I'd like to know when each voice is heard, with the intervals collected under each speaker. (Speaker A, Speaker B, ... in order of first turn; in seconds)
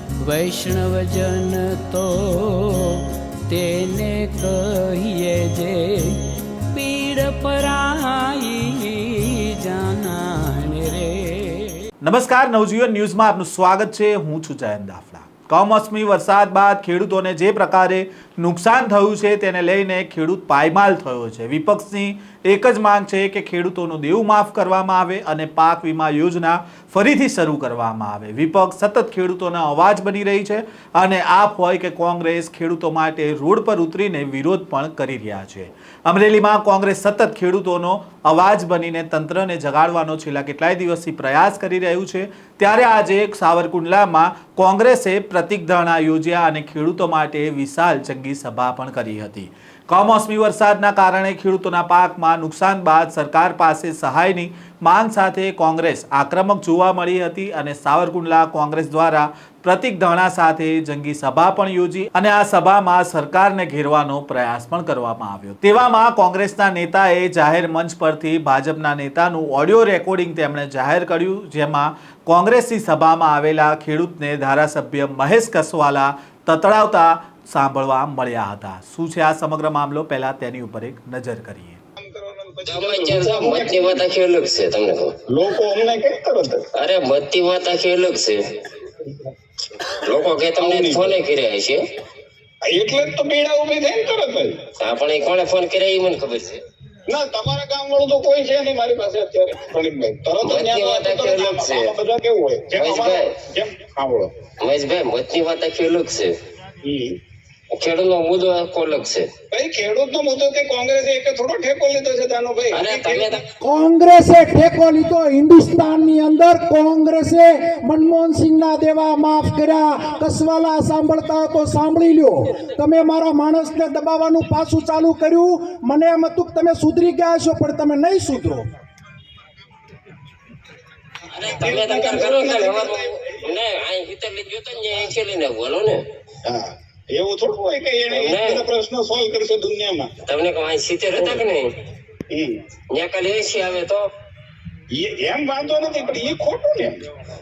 Speaker A: 0.2-11.8
Speaker B: 12.0-81.8
Speaker C: 82.0-84.0, 85.3-86.7, 90.6-91.2, 92.6-94.6, 97.1-104.3, 106.8-107.2, 109.5-113.4, 131.5-133.0, 136.4-140.1, 142.3-142.6, 144.9-147.0
Speaker D: 82.7-85.1, 86.7-88.5, 89.9-91.8, 94.8-96.6, 100.4-101.9, 102.7-103.3, 104.6-106.3, 107.7-109.3, 112.7-113.4, 131.3-136.0, 138.1-138.7, 140.2-141.7, 142.9-144.1
Speaker E: 113.6-128.7